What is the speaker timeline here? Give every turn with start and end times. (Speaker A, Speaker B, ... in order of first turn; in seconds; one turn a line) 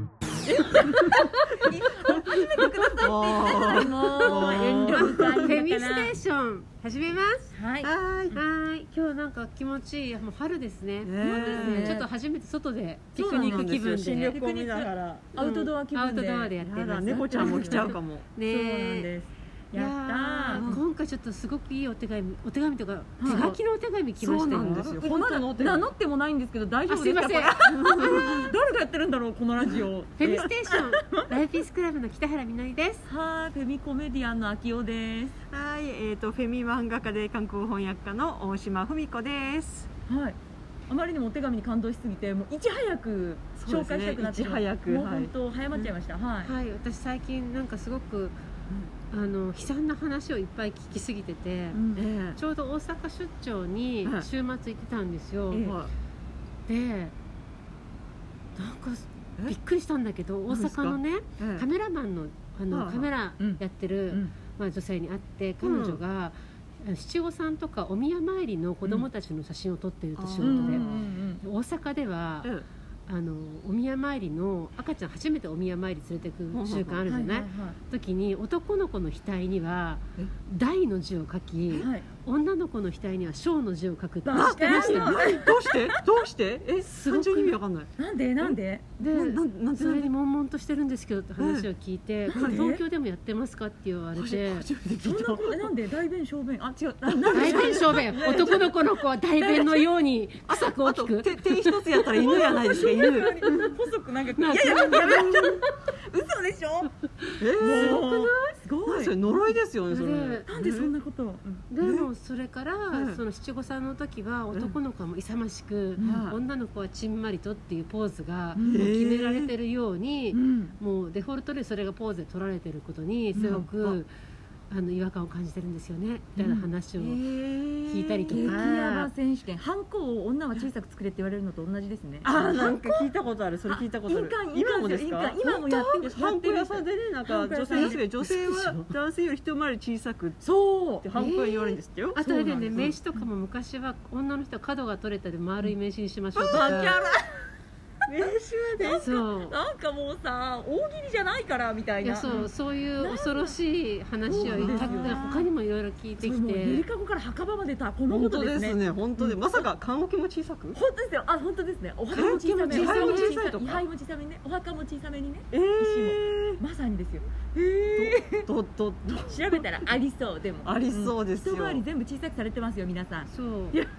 Speaker A: 0.7-6.2
Speaker B: 0.8-5.5
Speaker C: 3.7-7.5
Speaker A: 7.5-7.9
Speaker B: 7.8-8.4
Speaker C: 8.3-14.4
Speaker B: 11.0-12.0
Speaker A: 11.2-12.1
Speaker A: 13.2-13.8
Speaker B: 13.2-15.2
Speaker A: 14.3-16.6
Speaker C: 15.4-19.1
Speaker B: 16.6-18.3
Speaker A: 17.2-20.8
Speaker C: 19.7-25.0
Speaker B: 20.5-20.8
Speaker A: 23.2-23.5
Speaker B: 23.2-23.6
Speaker B: 24.2-25.9
Speaker A: 24.5-31.4
Speaker C: 26.9-28.1
Speaker B: 27.6-28.5
Speaker C: 30.2-33.1
Speaker A: 33.1-35.3
Speaker B: 35.5-39.9
Speaker A: 40.1-46.5
Speaker B: 43.6-45.9
Speaker C: 46.4-48.4
Speaker C: 49.1-51.8
Speaker A: 51.7-52.0
Speaker B: 52.0-52.4
Speaker C: 52.4-55.7
Speaker A: 55.5-55.8
Speaker B: 55.6-55.9
Speaker C: 56.7-57.1
Speaker C: 58.5-70.9
Speaker B: 60.5-61.7
Speaker B: 62.7-63.1
Speaker A: 63.4-64.3
Speaker B: 65.6-66.0
Speaker B: 70.2-71.1
Speaker A: 70.4-71.4
Speaker C: 71.4-72.5
Speaker C: 73.1-85.4
Speaker B: 76.5-77.0
Speaker A: 77.1-77.8
Speaker A: 81.8-82.0
Speaker A: 84.2-86.0
Speaker B: 84.4-90.1
Speaker C: 86.8-87.5
Speaker A: 88.0-88.9
Speaker C: 89.0-94.7
Speaker B: 91.4-91.7
Speaker B: 92.3-92.6
Speaker A: 92.3-92.8
Speaker B: 94.2-95.7
Speaker A: 95.0-98.6
Speaker B: 96.8-98.8
Speaker C: 97.3-103.7
Speaker B: 99.4-99.9
Speaker B: 100.5-103.7
Speaker A: 102.2-106.9
Speaker C: 104.4-105.9
Speaker B: 104.6-105.4
Speaker C: 106.9-108.6
Speaker B: 107.4-108.3
Speaker A: 107.6-109.5
Speaker B: 108.9-110.9
Speaker C: 109.9-110.5
Speaker A: 110.5-111.6
Speaker C: 111.7-124.1
Speaker B: 112.9-113.2
Speaker A: 116.0-116.3
Speaker B: 116.0-116.4
Speaker A: 118.5-118.9
Speaker B: 118.6-119.5
Speaker A: 120.3-120.8
Speaker A: 123.3-123.7
Speaker B: 123.4-124.0
Speaker C: 124.7-127.2
Speaker B: 127.0-128.6
Speaker C: 127.9-129.1
Speaker A: 128.3-133.1
Speaker B: 132.2-142.9
Speaker A: 133.7-138.1
Speaker C: 137.8-138.9
Speaker A: 140.4-141.1
Speaker C: 141.2-146.9
Speaker A: 142.2-142.9
Speaker B: 146.3-147.2
Speaker A: 146.5-147.2
Speaker B: 148.1-149.1
Speaker A: 148.1-153.6
Speaker C: 148.9-149.6
Speaker C: 152.0-156.8
Speaker B: 152.2-152.5
Speaker A: 154.2-155.5
Speaker B: 154.4-155.3
Speaker A: 156.2-159.7
Speaker B: 158.1-160.8
Speaker A: 160.7-168.5
Speaker C: 162.1-163.4
Speaker B: 162.1-163.8
Speaker B: 165.5-166.6
Speaker B: 168.0-169.7
Speaker A: 169.2-173.3
Speaker B: 170.7-171.8
Speaker C: 173.3-173.8